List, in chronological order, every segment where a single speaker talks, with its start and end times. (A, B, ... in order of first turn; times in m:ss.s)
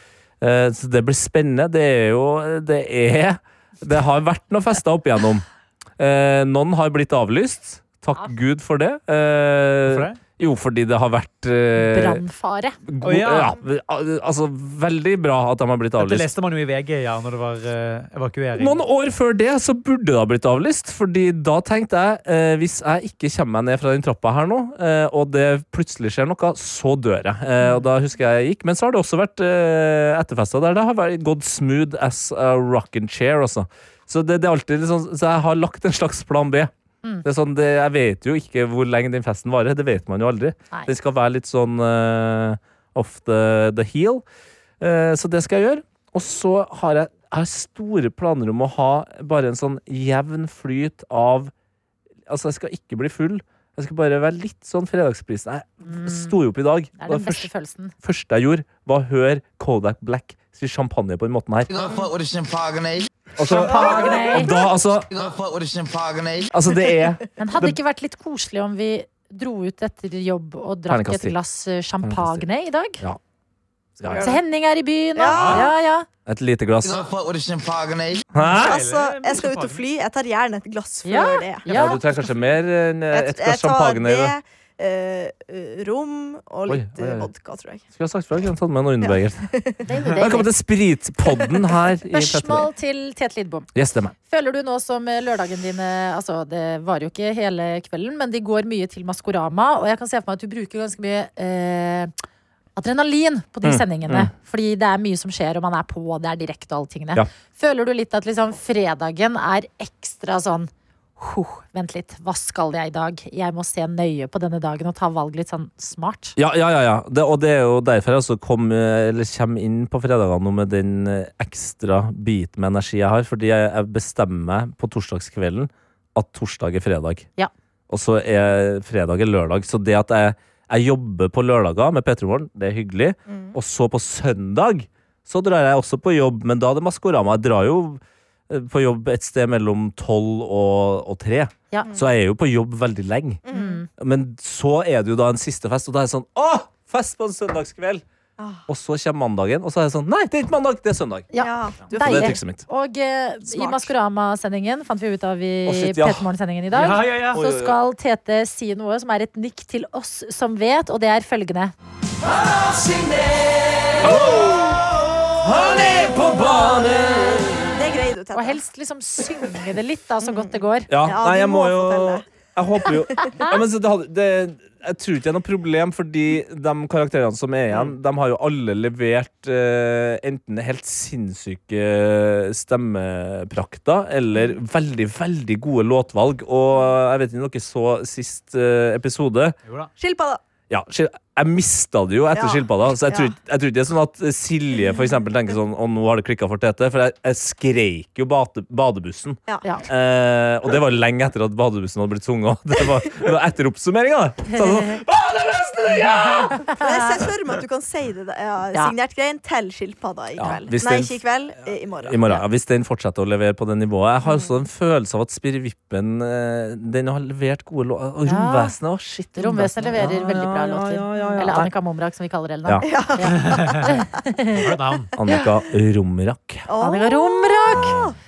0:00.4-0:05.4 A
0:06.0-0:12.2 A
0:09.8-0:10.2 B
0:11.8-0:12.8 C
0:12.9-0:16.3 A
0:13.0-0:13.6 B
0:16.0-0:18.8 B
0:18.6-0:36.7 A
0:27.6-0:27.9 C
0:37.2-0:44.2 A
0:44.8-0:51.5 A
0:52.3-1:01.7 A
0:55.8-0:56.4 C
0:57.0-0:57.9 C
1:01.7-1:06.5 D
1:03.4-1:05.1 A
1:03.5-1:04.5 C
1:06.5-1:07.8 A
1:07.4-1:13.0 C
1:10.9-1:11.4 A
1:12.0-1:12.4 A
1:14.0-1:14.4 A
1:14.1-1:16.1 C
1:15.2-1:15.7 E
1:15.3-1:15.7 B
1:16.3-1:17.0 A
1:16.8-1:18.3 D
1:18.3-1:18.8 A
1:18.4-1:19.9 B
1:18.6-1:21.7 E
1:21.0-1:22.0 C
1:21.7-1:24.4 A
1:23.1-1:27.8 E
1:26.7-1:27.3 A
1:27.9-1:29.5 A
1:29.0-1:29.9 E
1:29.9-1:30.5 C
1:30.2-1:32.7 A
1:32.1-1:33.7 C
1:33.8-1:34.2 A
1:34.3-1:42.1 C
1:42.8-1:56.4 C
1:43.6-1:44.3 A
1:56.4-2:07.3 A
2:07.9-2:23.4 A
2:13.3-2:13.6 E
2:23.4-2:23.8 E
2:23.5-2:23.9 C
2:24.0-2:28.0 A
2:28.4-2:28.6 E
2:28.7-2:31.3 A
2:31.3-2:41.7 C
2:31.4-2:32.4 E
2:31.8-2:32.6 A
2:33.5-2:33.9 E
2:35.7-2:36.2 A
2:36.7-2:37.4 B
2:37.3-2:37.8 A
2:42.8-2:43.2 A
2:44.0-2:47.7 A
2:44.1-2:44.5 E
2:47.7-2:48.6 E
2:48.4-2:50.9 C
2:50.2-2:52.3 E
2:50.9-3:09.6 A
2:52.8-2:53.4 E
3:09.6-3:09.9 B
3:10.0-3:10.4 E
3:10.7-3:26.7 A
3:12.3-3:13.4 E
3:24.5-3:25.0 C
3:26.6-3:26.8 C
3:26.7-3:32.4 E
3:30.4-3:31.2 A
3:32.0-3:41.7 A
3:38.3-3:38.8 C
3:39.4-3:44.6 C
3:41.2-3:41.4 E
3:42.8-3:44.0 E
3:43.4-3:43.9 B
3:44.5-3:45.1 B
3:45.2-3:46.7 A
3:46.7-3:48.2 E
3:46.8-3:47.9 C
3:47.7-3:48.1 A